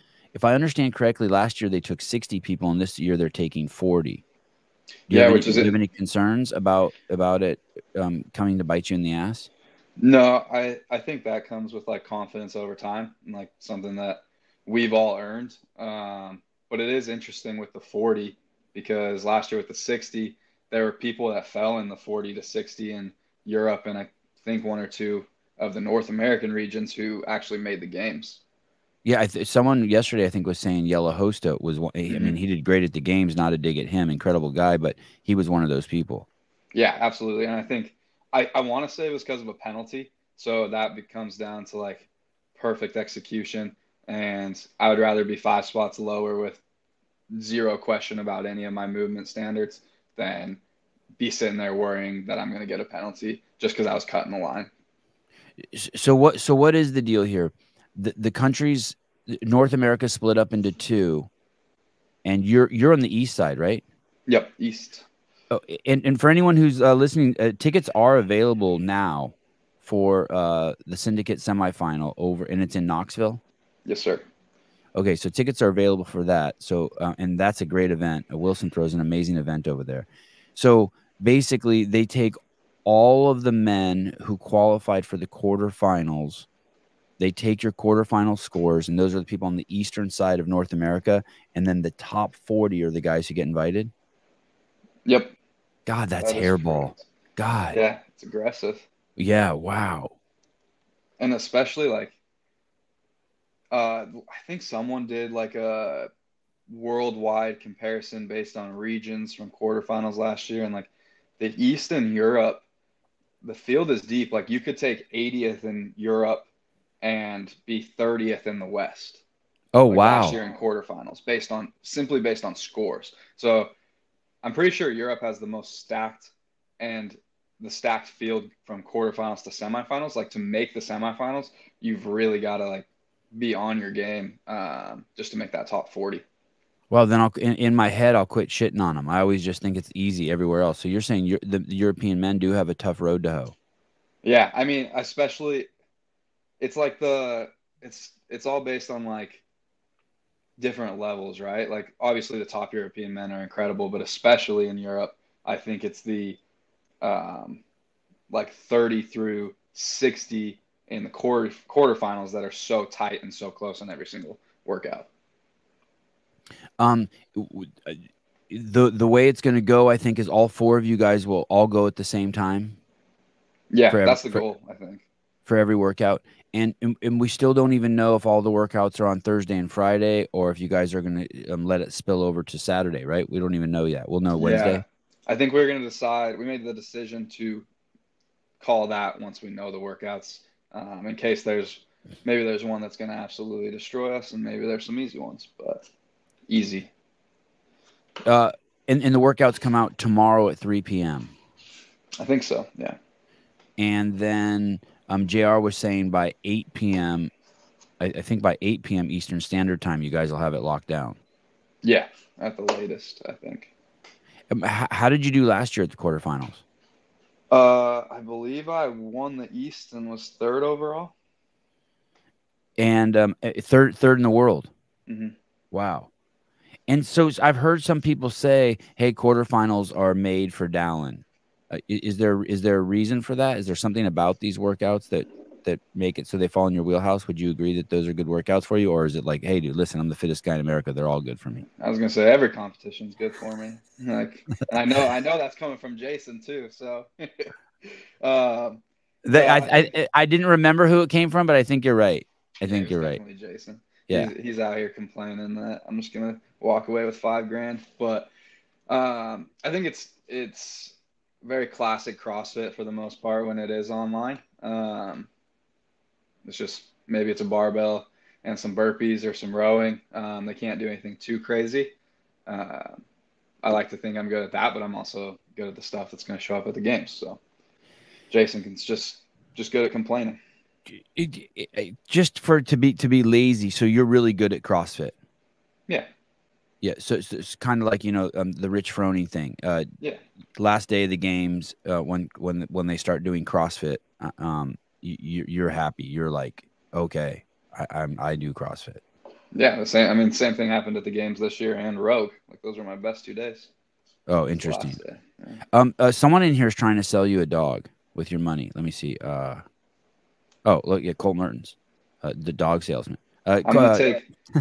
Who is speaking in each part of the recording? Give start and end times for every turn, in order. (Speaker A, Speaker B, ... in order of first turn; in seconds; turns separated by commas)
Speaker A: 0.3-4.2, Speaker B: 5.1-5.7, Speaker A: 5.1-9.5, Speaker B: 10.0-28.4, Speaker A: 29.0-36.3, Speaker B: 32.1-32.4, Speaker B: 36.7-46.6, Speaker B: 47.3-50.6, Speaker B: 51.2-54.7, Speaker A: 55.7-61.3, Speaker A: 62.2-63.8, Speaker B: 64.3-65.0, Speaker A: 65.5-73.4, Speaker B: 73.8-74.2, Speaker A: 74.9-86.5, Speaker A: 87.2-93.9, Speaker B: 95.0-95.3, Speaker A: 95.8-97.8, Speaker B: 96.2-97.0, Speaker B: 97.7-98.8, Speaker A: 99.2-100.1, Speaker B: 101.2-102.1, Speaker B: 103.7-106.1, Speaker B: 106.7-112.6, Speaker B: 113.4-116.5, Speaker B: 117.0-119.2, Speaker A: 119.7-120.4, Speaker B: 119.9-123.7, Speaker B: 124.4-136.2, Speaker A: 136.9-143.5, Speaker B: 144.2-145.7, Speaker B: 146.6-149.4, Speaker B: 150.6-156.4, Speaker B: 157.0-157.6, Speaker B: 158.3-165.1, Speaker A: 166.8-172.8, Speaker B: 173.7-175.0, Speaker A: 173.9-174.4, Speaker A: 175.4-184.8, Speaker B: 184.4-187.7, Speaker B: 188.6-195.8, Speaker B: 196.5-196.9, Speaker A: 198.2-201.3, Speaker B: 202.2-203.0, Speaker A: 203.8-207.3, Speaker A: 208.0-211.2, Speaker B: 211.8-213.7, Speaker A: 214.5-216.6, Speaker B: 217.5-221.1, Speaker A: 222.8-224.7, Speaker B: 225.1-225.3, Speaker A: 225.7-226.1, Speaker A: 226.9-241.7, Speaker B: 241.8-247.5, Speaker B: 248.2-249.9, Speaker A: 249.2-253.2, Speaker B: 252.6-258.3, Speaker B: 258.9-265.3, Speaker B: 266.4-271.9, Speaker B: 272.5-273.0, Speaker B: 273.6-277.4, Speaker B: 278.3-280.4, Speaker A: 280.9-285.1, Speaker A: 286.8-289.9, Speaker A: 290.6-299.0, Speaker B: 299.5-303.7, Speaker A: 304.3-305.0, Speaker B: 304.6-305.6, Speaker A: 305.7-309.6, Speaker A: 310.6-314.1, Speaker B: 313.6-314.2